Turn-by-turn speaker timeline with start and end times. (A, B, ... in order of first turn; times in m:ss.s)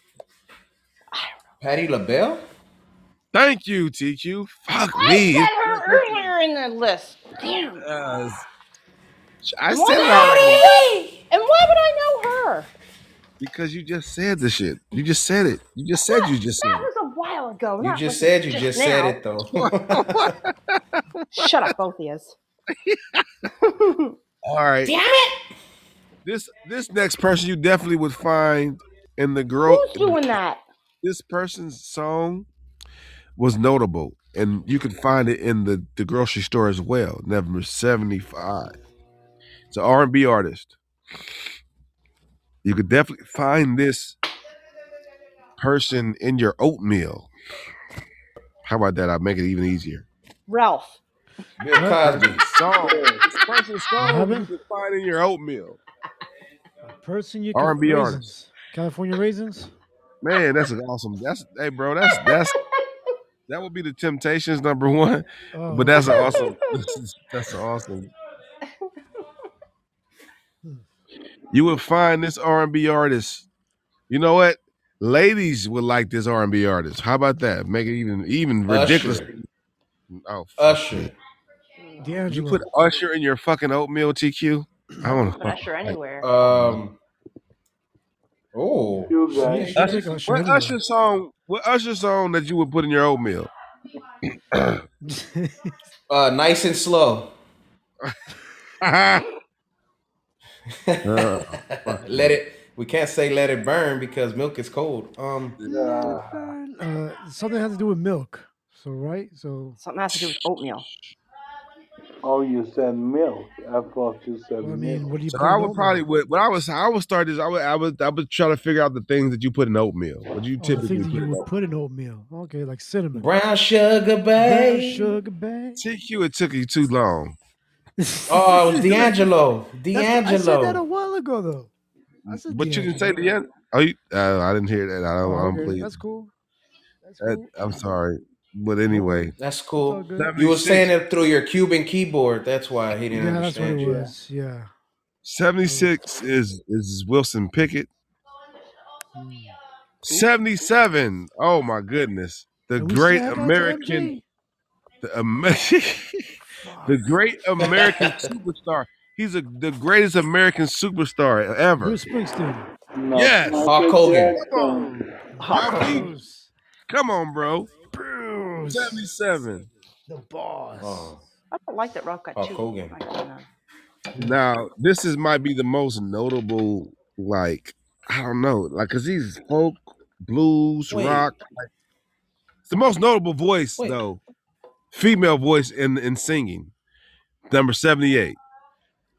0:01.6-0:02.5 A
0:03.3-0:06.3 B
0:04.9-0:07.8 C
0:07.8-0:08.4 B
0:09.4-0:10.7 B
0:09.7-0:12.7 C
0:13.4-0:16.9 B
0:16.1-0:19.2 C
0:17.8-0:20.3 A
0:19.6-0:21.7 B
0:21.3-0:22.4 C
0:22.8-0:23.2 B
0:23.6-0:24.2 C
0:24.4-0:25.0 B
0:24.9-0:25.3 C
0:26.2-0:30.2 B
0:29.7-0:30.6 C
0:31.0-0:32.5 B
0:33.4-0:38.7 B
0:39.7-0:40.8 B
0:42.6-0:44.2 B
0:45.6-0:47.3 B
0:48.6-0:50.0 B
0:50.5-0:51.0 C
0:51.6-0:52.4 A
0:51.7-0:52.2 D
0:52.0-0:55.8 B
0:52.8-0:53.2 E
0:54.0-0:54.5 D
0:56.9-0:59.7 D
0:57.5-0:58.3 B
1:00.2-1:02.6 B
1:03.5-1:08.1 B
1:05.5-1:06.4 D
1:06.0-1:06.5 C
1:11.5-1:13.4 B
1:14.1-1:19.4 B
1:18.7-1:19.3 A
1:20.1-1:21.1 B
1:20.6-1:21.1 A
1:21.8-1:22.3 C
1:22.0-1:22.6 D
1:22.3-1:26.8 B
1:25.0-1:26.3 C
1:26.2-1:26.9 A
1:28.5-1:30.0 A
1:29.1-1:29.9 E
1:29.4-1:30.8 D
1:29.8-1:33.5 B
1:34.5-1:34.8 B
1:35.0-1:35.7 D
1:36.1-1:37.3 A
1:38.8-1:39.2 B
1:40.9-1:45.6 A
1:41.0-1:42.4 B
1:45.6-1:46.3 B
1:45.6-1:49.8 D
1:45.7-1:46.4 E
1:49.8-1:50.9 C
1:52.2-1:55.1 E
1:54.6-1:56.0 D
1:55.3-2:01.5 B
2:00.6-2:03.3 D
2:03.2-2:05.1 A
2:04.3-2:05.8 D
2:05.8-2:07.4 B
2:08.0-2:09.3 D
2:08.3-2:10.8 A
2:09.9-2:11.7 D
2:12.3-2:16.0 B
2:12.3-2:13.2 D
2:15.2-2:16.3 D
2:17.0-2:17.9 D
2:17.2-2:19.3 B
2:18.9-2:20.4 D
2:19.4-2:24.0 A
2:20.1-2:20.9 B
2:23.1-2:24.7 D
2:23.8-2:24.1 E
2:25.2-2:27.9 B
2:25.6-2:26.0 D
2:29.1-2:29.5 D
2:30.0-2:34.1 B
2:32.8-2:34.2 D
2:35.0-2:36.3 B
2:36.6-2:37.1 D
2:36.8-2:42.0 B
2:37.6-2:38.3 A
2:41.8-2:42.7 D
2:42.9-2:45.1 E
2:43.1-2:43.7 B
2:43.6-2:44.4 A
2:44.3-2:46.1 B
2:45.4-2:46.5 D
2:45.4-2:46.1 C
2:46.9-2:47.7 B
2:47.9-2:49.0 D
2:48.7-2:49.7 B
2:50.1-2:51.2 D
2:50.8-2:51.2 A
2:51.5-2:53.4 C
2:52.3-2:52.9 A
2:54.2-3:01.7 B
3:00.9-3:01.3 A
3:02.6-3:04.2 B
3:04.9-3:06.7 B
3:07.5-3:08.4 B